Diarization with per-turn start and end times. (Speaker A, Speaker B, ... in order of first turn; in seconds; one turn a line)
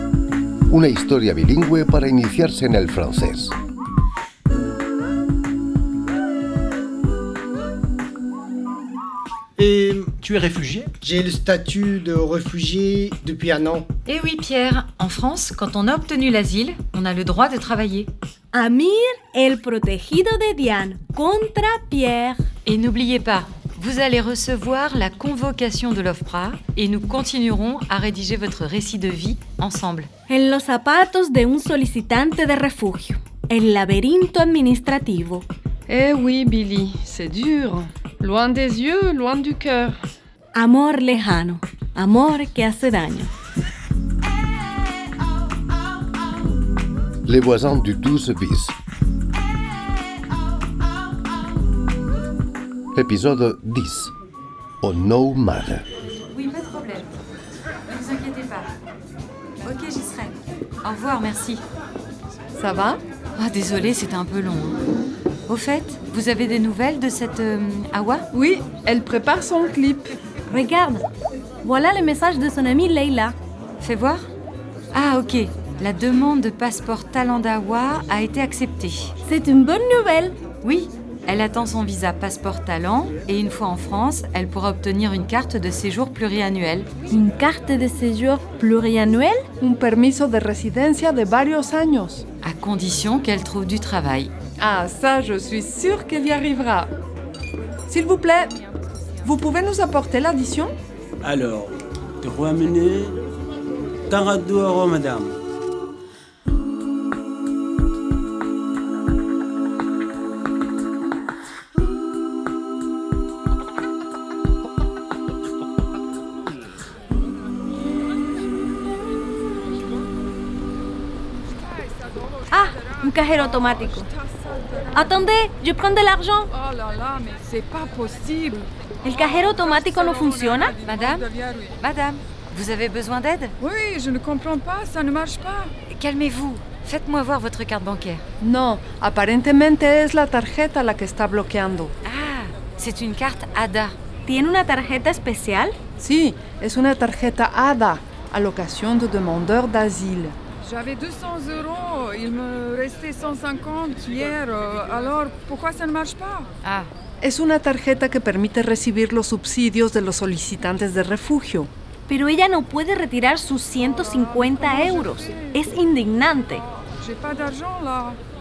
Speaker A: 0.7-3.5
Speaker B: 11.0-13.9
Speaker C: 14.1-18.1
Speaker D: 18.5-22.4
Speaker C: 22.6-30.1
Speaker D: 30.3-35.5
Speaker E: 35.9-40.0
Speaker D: 40.5-43.3
Speaker A: 47.3-48.8
Speaker A: 53.0-54.1
Speaker A: 54.8-55.9
Speaker C: 56.3-57.2
Speaker C: 57.9-58.7
Speaker C: 59.6-61.6
Speaker E: 62.6-63.0
Speaker C: 63.4-64.8
Speaker C: 65.5-68.2
Speaker E: 68.3-70.2
Speaker D: 70.5-71.1
Speaker D: 71.6-73.4
Speaker C: 73.8-74.3
Speaker C: 74.9-79.1
Speaker D: 79.2-80.4
Speaker C: 80.6-86.9
Speaker D: 87.1-89.5
Speaker E: 89.6-92.2
Speaker C: 92.4-94.3
Speaker E: 94.6-96.9
Speaker E: 97.9-98.6
Speaker E: 99.2-100.7
Speaker F: 101.2-103.2
Speaker F: 104.1-105.4
Speaker G: 121.6-125.3
Speaker D: 122.5-124.1
Speaker D: 124.9-126.5
Speaker G: 126.5-131.8
Speaker D: 129.0-130.8
Speaker C: 130.8-131.3
Speaker C: 131.8-133.5
Speaker G: 133.6-135.7
Speaker C: 135.9-138.2
Speaker E: 138.4-141.9
Speaker C: 142.1-143.9
Speaker D: 144.2-145.8
Speaker E: 146.0-150.4
Speaker G: 150.6-156.5
Speaker C: 156.6-156.9
Speaker E: 157.2-161.7
Speaker D: 162.1-166.6
Speaker G: 163.8-165.6
Speaker G: 167.0-168.2